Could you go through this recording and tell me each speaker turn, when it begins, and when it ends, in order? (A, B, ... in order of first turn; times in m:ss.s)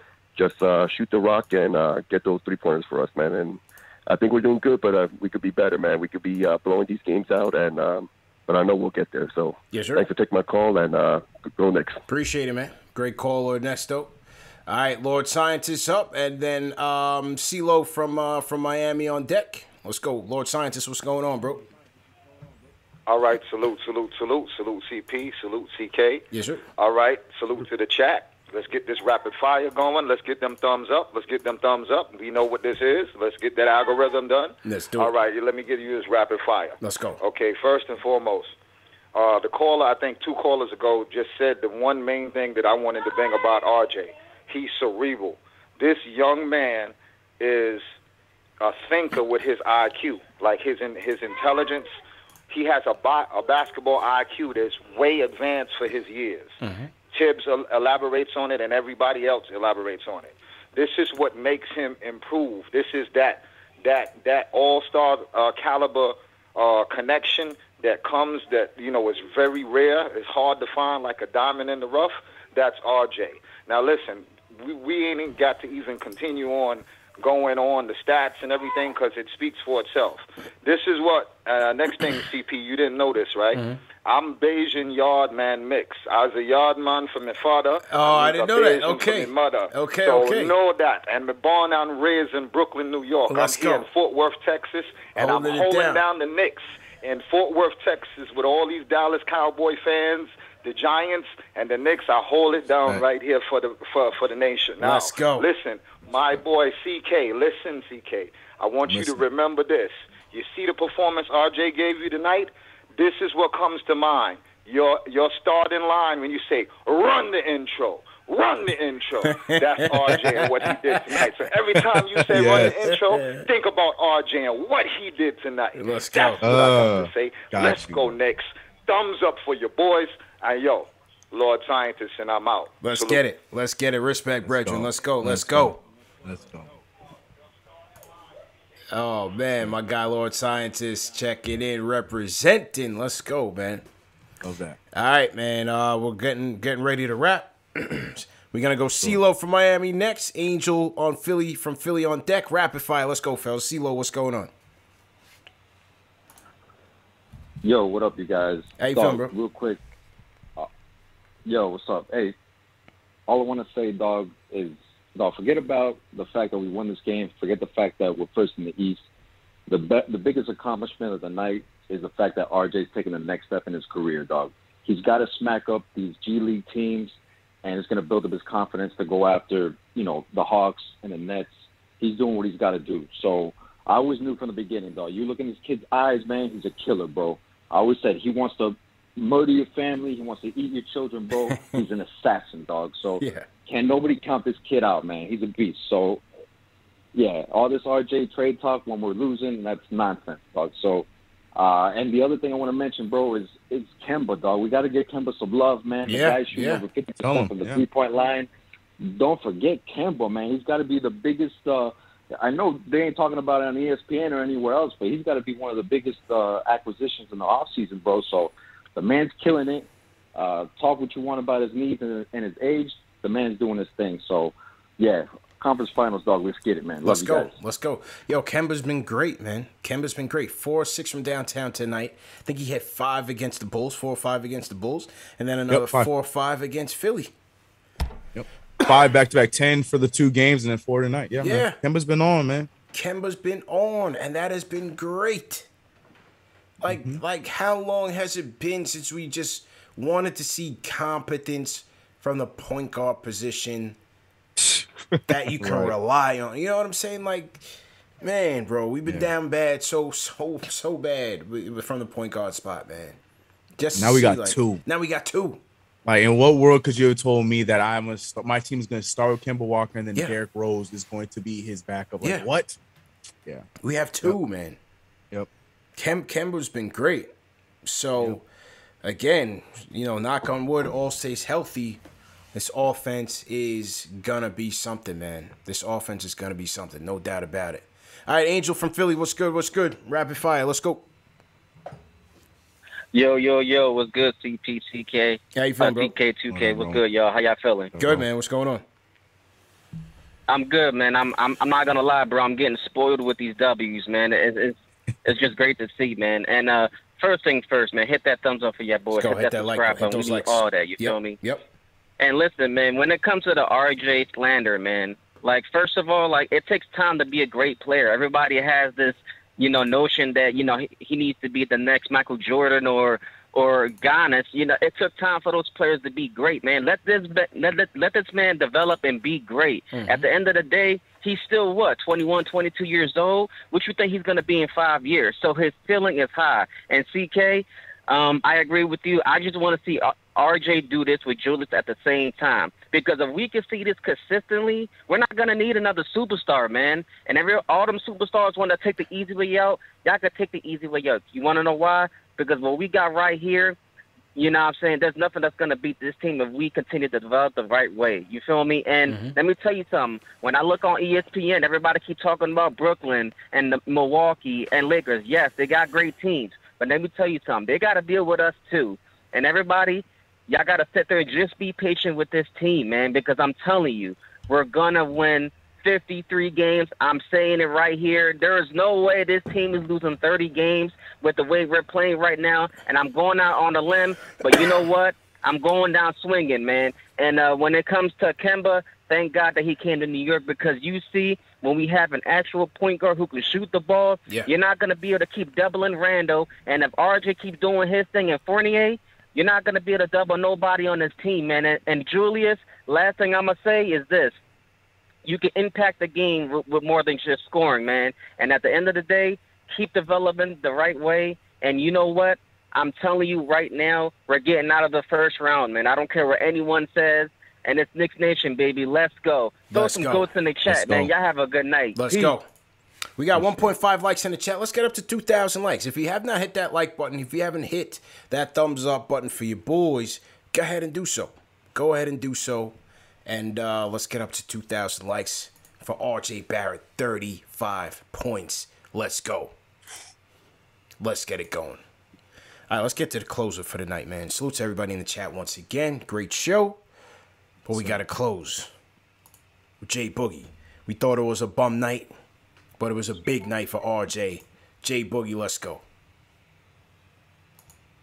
0:00.4-0:12.0 A
0:09.7-0:10.0 B
0:12.1-0:21.6 B
0:23.1-0:26.2 C
0:26.3-0:26.6 B
0:26.8-0:38.5 C
0:34.6-0:35.1 B
0:36.8-0:37.2 B
0:39.1-0:47.8 C
0:48.6-0:51.9 C
0:52.5-0:56.6 C
0:56.6-0:56.9 B
0:57.1-2:13.2 C
1:23.5-1:23.8 B
1:27.9-1:30.5 B
1:33.3-1:33.9 B
1:35.1-1:36.0 B
1:44.8-1:45.5 B
1:48.9-1:49.2 D
1:59.2-2:01.2 B
2:02.3-2:02.9 D
2:02.4-2:03.4 B
2:05.7-2:06.8 B
2:06.4-2:08.0 D
2:12.8-2:15.8 B
2:14.5-2:15.7 D
2:16.2-2:16.7 D
2:18.9-2:23.8 B
2:24.4-2:24.8 D
2:24.9-2:34.5 B
2:37.6-2:39.8 E
2:38.8-2:39.3 B
2:41.4-2:42.4 E
2:43.3-2:49.0 E
2:49.7-3:16.2 E
3:13.2-3:13.5 B
3:17.1-3:47.5 E
3:26.1-3:26.8 B
3:27.2-3:27.8 D
3:47.0-3:57.3 B
3:55.7-3:56.1 D
3:58.3-4:02.7 D
4:01.4-4:01.8 B
4:02.9-4:05.7 B
4:06.8-4:14.0 B
4:06.8-4:07.2 D
4:14.6-4:15.9 D
4:15.3-4:23.2 B
4:23.8-4:25.6 B
4:23.9-4:24.8 D
4:26.0-4:32.8 D
4:33.8-4:34.8 B
4:36.0-4:37.3 B
4:37.8-4:38.4 B
4:39.0-4:42.0 B
4:42.5-4:51.1 B
4:53.1-4:57.9 F
4:55.5-4:56.1 B
4:56.5-4:57.0 D
4:57.9-4:58.2 D
4:58.0-4:58.8 B
5:00.5-5:11.4 F
5:09.1-5:11.7 B
5:12.2-5:53.8 F
5:29.9-5:30.3 B
5:54.3-6:44.4 F
5:59.1-5:59.4 B
6:45.2-7:02.0 F
6:59.7-7:01.1 B
7:01.9-7:02.4 B
7:03.2-7:19.5 B
7:21.0-7:21.8 B
7:22.7-7:26.8 B
7:27.7-7:27.9 D
7:27.7-7:28.7 B
7:29.8-7:32.1 B
7:32.8-7:35.8 B